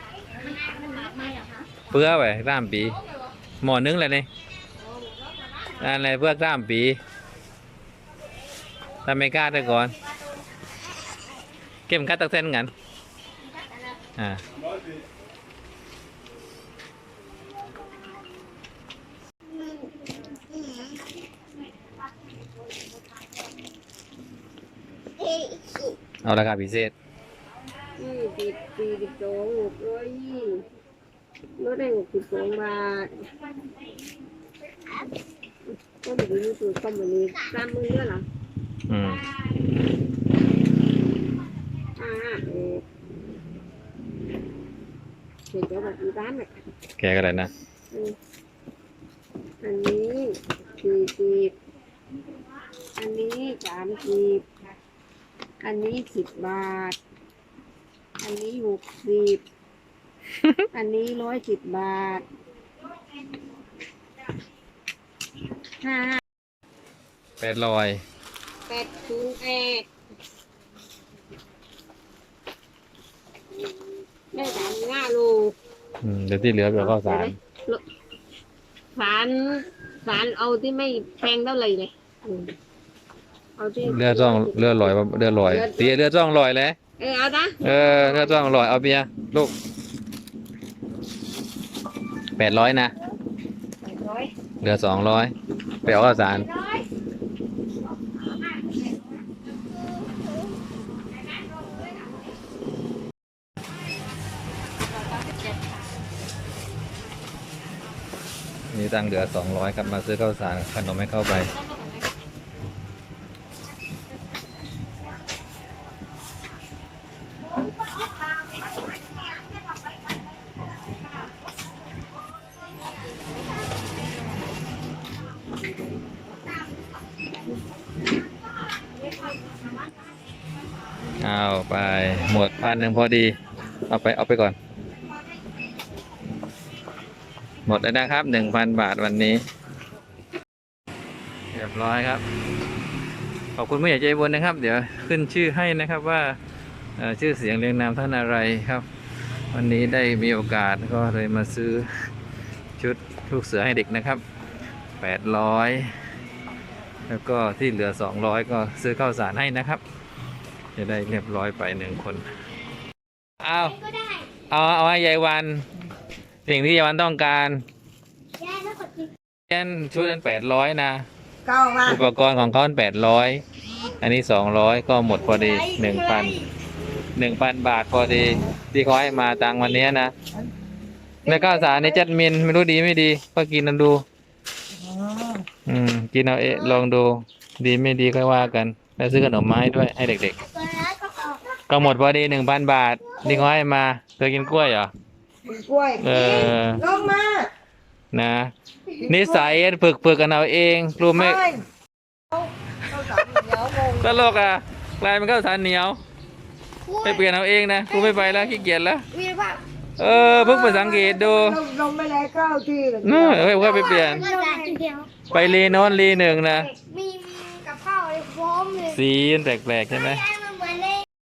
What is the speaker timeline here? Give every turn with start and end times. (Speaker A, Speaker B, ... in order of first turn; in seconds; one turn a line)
Speaker A: 0.7-1.5
Speaker B: 1.9-3.0
Speaker B: 3.6-4.3
Speaker B: 5.8-7.0
Speaker B: 9.0-9.9
Speaker B: 11.9-12.7
Speaker B: 14.2-14.4
Speaker A: 25.2-25.8
Speaker B: 26.2-26.9
Speaker A: 28.0-30.6
Speaker A: 31.6-33.2
Speaker A: 36.0-38.2
Speaker B: 38.9-39.2
Speaker A: 42.0-42.8
Speaker A: 45.5-46.5
Speaker B: 47.0-47.5
Speaker A: 49.6-51.5
Speaker A: 53.0-54.5
Speaker A: 55.6-57.0
Speaker A: 58.2-59.4
Speaker B: 60.4-60.7
Speaker A: 60.7-62.2
Speaker A: 65.8-66.2
Speaker B: 67.4-68.0
Speaker A: 68.7-69.8
Speaker A: 74.3-75.5
Speaker B: 76.0-77.4
Speaker A: 76.8-77.8
Speaker A: 79.0-82.5
Speaker A: 83.6-85.9
Speaker B: 83.8-86.8
Speaker A: 87.0-88.3
Speaker B: 87.6-89.5
Speaker B: 92.4-92.9
Speaker A: 93.8-94.3
Speaker B: 94.6-96.5
Speaker A: 96.5-96.8
Speaker B: 108.7-111.5
Speaker B: 131.2-133.3
Speaker B: 133.9-134.6
Speaker B: 137.7-139.4
Speaker B: 141.5-142.2
Speaker B: 143.6-146.4
Speaker B: 147.0-148.8
Speaker B: 149.5-151.9
Speaker B: 152.8-154.2
Speaker B: 155.0-155.9
Speaker B: 157.1-159.8
Speaker B: 160.8-162.2
Speaker B: 163.4-163.8
Speaker B: 164.5-165.7
Speaker B: 166.4-167.6
Speaker C: 168.4-169.1
Speaker B: 169.5-171.0
Speaker D: 171.4-172.0
Speaker B: 171.8-173.4
Speaker B: 174.0-176.4
Speaker B: 177.2-180.1
Speaker D: 181.2-182.0
Speaker B: 181.2-184.0
Speaker D: 184.8-185.4
Speaker B: 185.7-190.4
Speaker C: 190.6-191.4
Speaker B: 191.7-194.9
Speaker D: 195.4-197.5
Speaker B: 196.0-196.8
Speaker B: 198.1-198.5
Speaker D: 198.9-199.5
Speaker B: 199.1-201.4
Speaker D: 201.1-201.6
Speaker D: 202.3-204.5
Speaker B: 204.0-206.0
Speaker C: 206.9-207.2
Speaker B: 207.0-209.1
Speaker C: 209.1-209.6
Speaker B: 210.0-211.6
Speaker D: 210.5-214.5
Speaker B: 213.0-214.2
Speaker C: 213.6-216.0
Speaker B: 215.3-216.7
Speaker C: 216.7-218.9
Speaker B: 218.8-220.2
Speaker C: 220.0-221.0